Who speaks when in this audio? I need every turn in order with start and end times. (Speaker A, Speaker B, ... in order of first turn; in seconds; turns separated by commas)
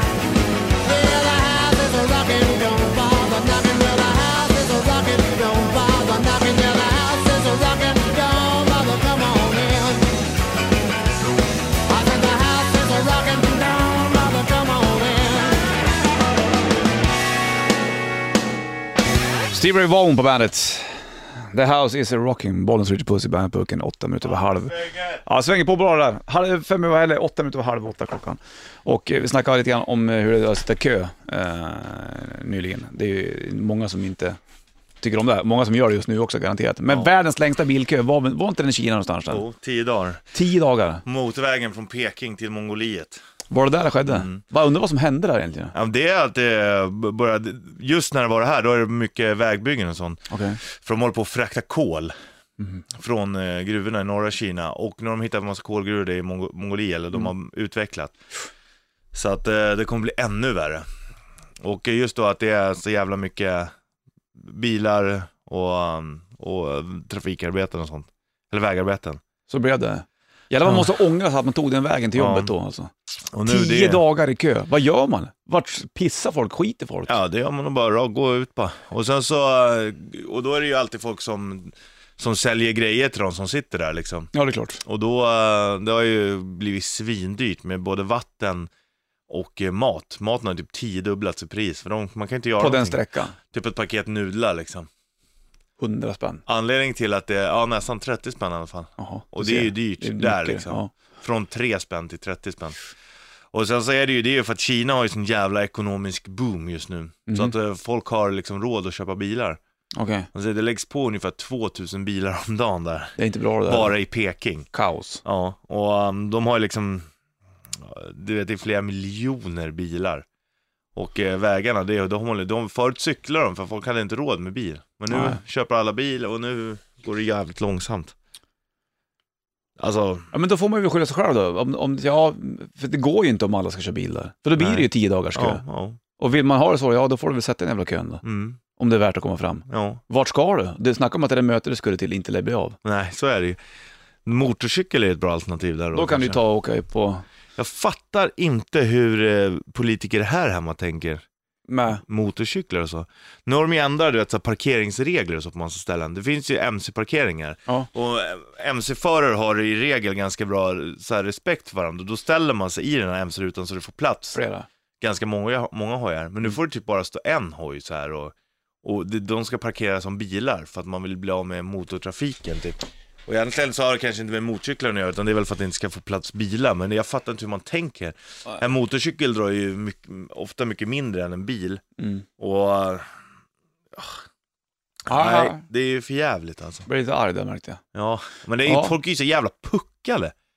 Speaker A: 0.8-10.2, Speaker A: 11.9-15.6, Speaker B: 19.5-34.4, Speaker C: 24.2-25.2, Speaker B: 35.0-39.4, Speaker C: 39.3-40.2, Speaker B: 40.3-41.0, Speaker C: 41.0-43.2, Speaker B: 43.5-45.7, Speaker C: 44.0-44.4, Speaker C: 45.7-52.1, Speaker B: 50.3-50.6, Speaker C: 52.9-58.1, Speaker C: 59.1-60.8, Speaker C: 61.6-63.7, Speaker C: 64.3-69.2, Speaker B: 69.5-72.9, Speaker C: 70.6-70.9, Speaker C: 72.1-72.5, Speaker C: 73.3-74.0, Speaker B: 73.5-77.2, Speaker C: 77.1-84.3, Speaker B: 84.3-84.8, Speaker C: 84.8-88.7, Speaker C: 89.3-93.0, Speaker B: 92.6-93.4, Speaker C: 93.5-94.9, Speaker B: 95.8-96.4, Speaker C: 96.5-102.8, Speaker B: 99.0-100.9, Speaker C: 103.5-109.6, Speaker B: 107.3-107.5, Speaker B: 110.0-110.3, Speaker C: 110.3-114.7, Speaker B: 113.2-114.0, Speaker B: 114.7-115.2, Speaker C: 115.2-117.0, Speaker C: 117.7-120.2, Speaker C: 120.9-128.1, Speaker B: 125.1-125.4, Speaker C: 129.8-130.3, Speaker B: 130.3-135.6, Speaker C: 134.6-136.0, Speaker B: 136.2-138.2, Speaker C: 138.2-138.6, Speaker B: 138.8-142.8, Speaker C: 139.7-140.0, Speaker C: 142.8-143.6, Speaker C: 144.2-146.4, Speaker B: 145.9-147.2, Speaker C: 147.6-151.2, Speaker B: 151.7-152.0, Speaker C: 151.9-164.4, Speaker B: 164.3-164.7, Speaker C: 165.0-181.8, Speaker B: 182.0-182.2, Speaker C: 182.4-183.0, Speaker C: 183.9-184.2, Speaker C: 185.1-186.9, Speaker B: 185.1-185.6, Speaker B: 186.8-187.8, Speaker C: 187.9-190.3, Speaker B: 188.6-188.9